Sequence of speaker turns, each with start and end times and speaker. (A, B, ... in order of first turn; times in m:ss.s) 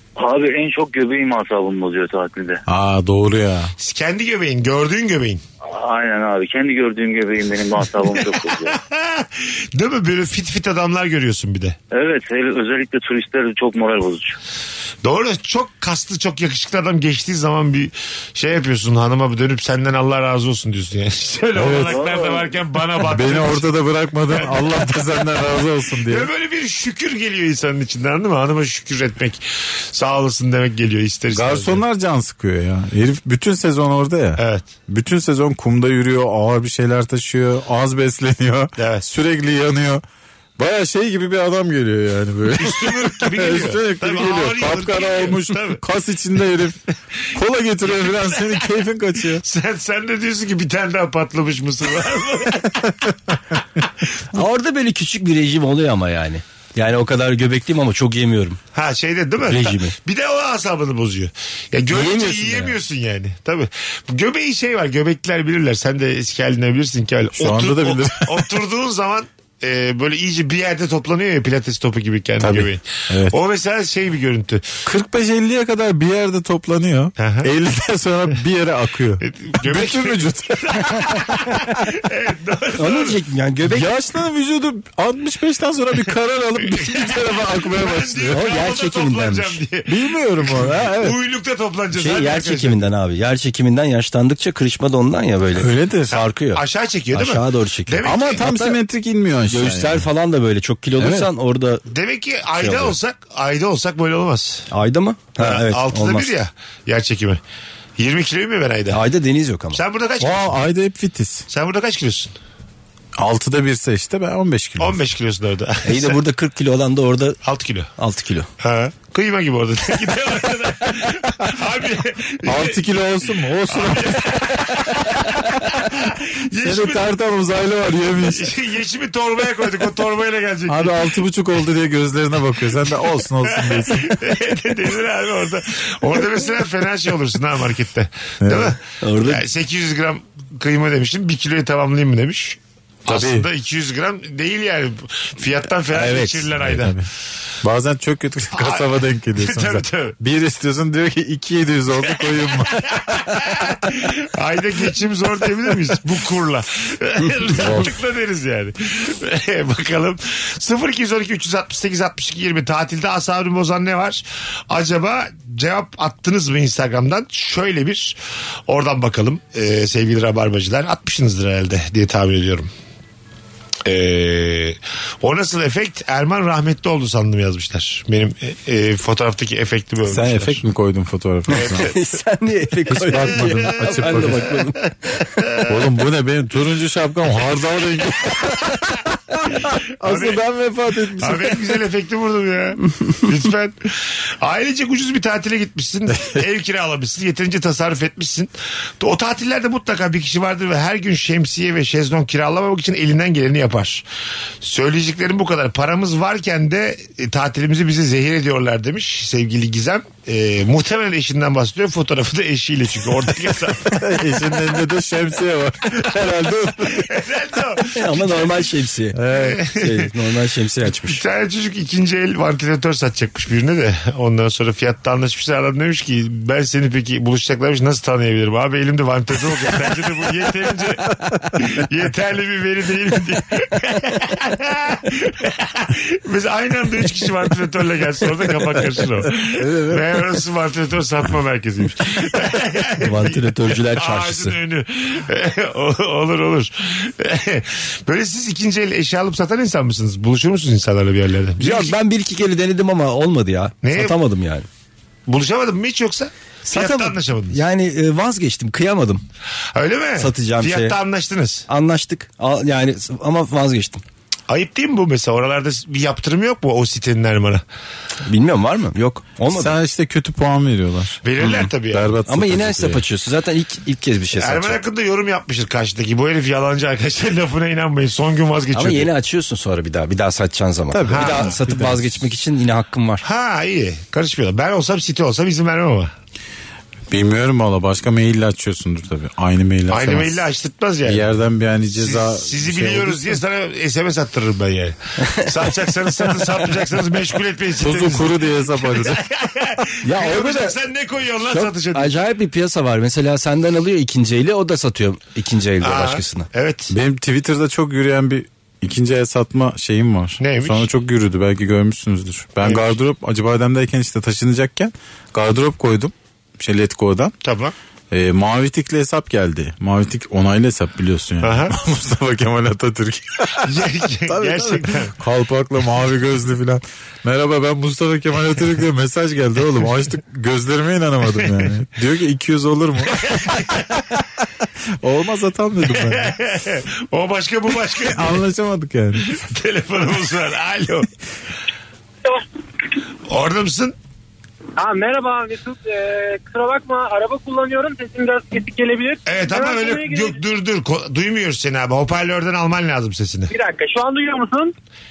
0:00.2-0:02.6 A
0:02.7-0:03.7 B
0:03.8-0:05.4 C
0:05.7-0:08.8 A
0:08.1-0:11.8 C
0:11.9-0:14.4 A
0:15.0-0:23.7 C
0:21.6-0:22.0 B
0:21.8-0:22.5 A
0:23.0-0:26.3 B
0:24.3-0:25.3 C
0:26.1-0:31.8 C
0:31.3-0:40.0 B
0:34.4-0:34.7 C
0:38.8-0:39.1 C
0:40.6-0:46.8 B
0:42.6-0:45.8 C
0:47.3-0:49.4 B
0:47.9-0:48.6 C
0:49.4-0:53.1 C
0:54.4-0:58.6 D
0:58.7-1:14.7 C
0:59.5-1:00.0 D
1:01.9-1:02.4 B
1:02.0-1:02.7 D
1:07.3-1:08.5 B
1:12.4-1:13.4 B
1:14.9-1:21.2 B
1:17.2-1:17.5 C
1:19.2-1:23.2 C
1:22.8-1:23.9 D
1:23.7-1:28.4 B
1:26.7-1:32.9 C
1:28.3-1:29.6 D
1:29.9-1:31.2 B
1:31.9-1:38.8 D
1:35.6-1:36.2 B
1:36.1-1:38.5 C
1:38.0-1:40.1 B
1:39.5-1:41.8 D
1:41.0-1:41.3 B
1:41.9-1:44.7 C
1:42.6-1:43.0 D
1:44.7-1:46.3 D
1:45.4-1:47.4 C
1:48.0-1:49.0 C
1:48.9-1:49.8 D
1:49.7-1:50.5 C
1:50.2-1:51.5 B
1:51.5-1:52.3 C
1:53.2-1:55.0 B
1:54.8-1:56.2 C
1:55.8-1:57.4 D
1:57.4-1:57.9 C
1:58.0-1:58.5 D
1:58.6-2:02.8 C
2:02.4-2:04.4 B
2:03.7-2:07.0 C
2:06.5-2:08.5 B
2:08.2-2:11.0 C
2:10.7-2:14.2 B
2:13.6-2:27.0 C
2:18.4-2:18.8 B
2:19.0-2:19.4 D
2:23.1-2:23.5 B
2:25.9-2:26.5 D
2:26.6-2:27.1 B
2:27.6-2:33.2 B
2:28.5-2:30.2 C
2:32.8-2:48.2 C
2:37.6-2:37.9 B
2:48.7-2:52.7 C
2:53.8-3:00.6 C
3:00.1-3:01.9 B
3:01.5-3:04.9 D
3:01.5-3:02.0 C
3:02.9-3:04.6 B
3:03.1-3:04.5 C
3:05.4-3:05.8 C
3:05.7-3:09.0 B
3:09.5-3:11.5 B
3:10.0-3:10.4 C
3:11.2-3:24.0 C
3:24.6-3:34.1 C
3:33.9-3:37.1 B
3:36.8-3:38.6 C
3:38.0-3:41.2 D
3:39.1-3:39.6 B
3:39.3-3:40.1 C
3:41.0-4:12.0 C
3:59.6-4:00.0 B
4:03.0-4:04.6 D
4:11.6-4:14.7 D
4:13.8-4:14.2 C
4:15.3-4:17.6 C
4:16.6-4:19.2 D
4:19.8-4:21.7 C
4:20.2-4:21.0 D
4:21.7-4:24.0 D
4:24.5-4:27.6 C
4:28.3-4:29.8 D
4:29.5-4:31.2 B
4:31.2-4:32.2 C
4:31.9-4:33.0 B
4:32.3-4:34.8 D
4:34.3-4:39.1 C
4:38.7-4:43.2 D
4:40.9-4:42.2 B
4:41.1-4:41.6 C
4:43.2-4:46.1 C
4:47.1-4:50.4 B
4:49.9-4:51.3 C
4:51.0-4:53.4 B
4:51.9-5:02.2 C
4:57.8-4:59.2 B
5:00.0-5:00.8 D
5:01.5-5:06.5 D
5:05.8-5:06.9 C
5:06.9-5:17.4 B
5:10.4-5:10.9 C
5:12.6-5:12.9 C
5:17.4-5:17.8 C
5:18.1-5:23.7 B
5:21.4-5:21.8 C
5:23.6-5:25.1 C
5:24.3-5:33.8 B
5:33.2-5:34.0 C
5:35.0-5:36.4 B
5:35.9-5:38.4 C
5:38.0-5:39.4 B
5:39.3-5:41.1 C
5:43.3-5:44.0 C
5:44.8-5:50.4 E
5:49.3-5:53.5 C
5:53.5-5:54.7 E